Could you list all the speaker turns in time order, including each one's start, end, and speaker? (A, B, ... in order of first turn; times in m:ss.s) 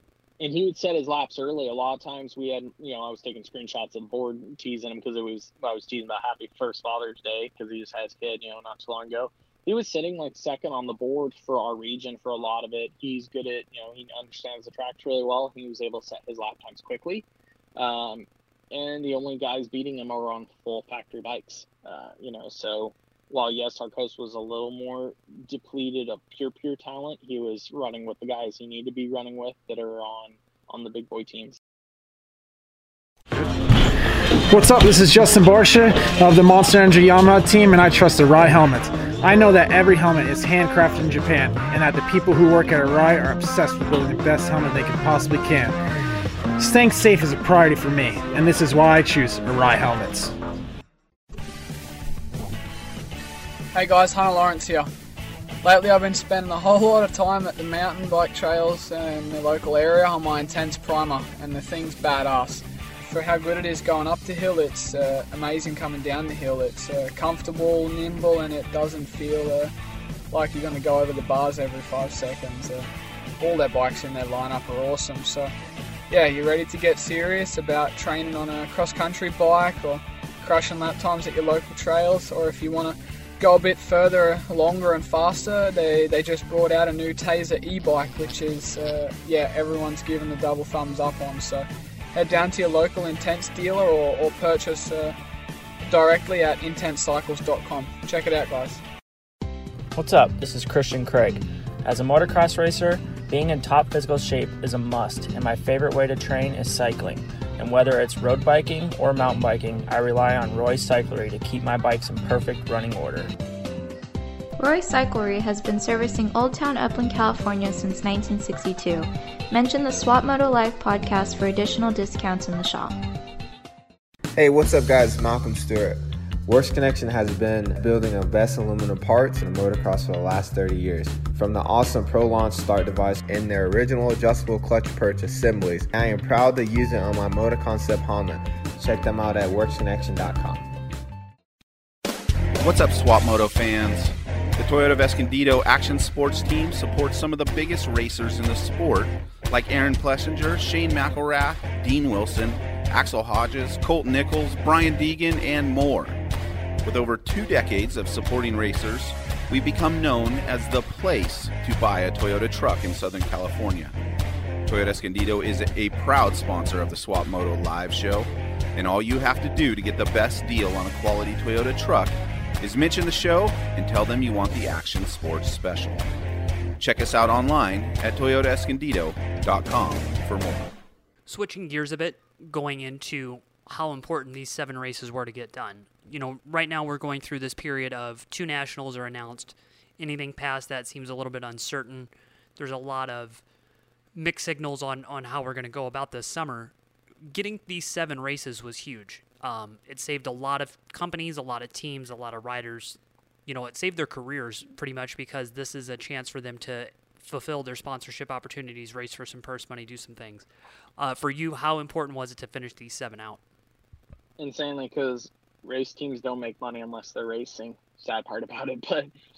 0:00.4-0:31.6 A
0:34.5-0:45.8 B
0:46.6-0:50.4 B
0:53.7-0:54.9 C
0:55.6-1:09.7 C
1:10.3-1:15.5 C
1:16.1-1:35.2 C
1:35.9-1:38.8 C
1:39.9-1:53.3 D
1:54.6-2:03.0 E
2:04.4-2:20.7 F
2:22.6-2:36.2 G
2:36.8-2:43.9 G
2:44.7-2:56.1 G
2:56.8-3:00.7 G
3:01.3-3:13.4 H
3:14.2-3:16.7 H
3:17.3-3:30.5 H
3:31.0-3:33.4 H
3:34.4-3:39.1 A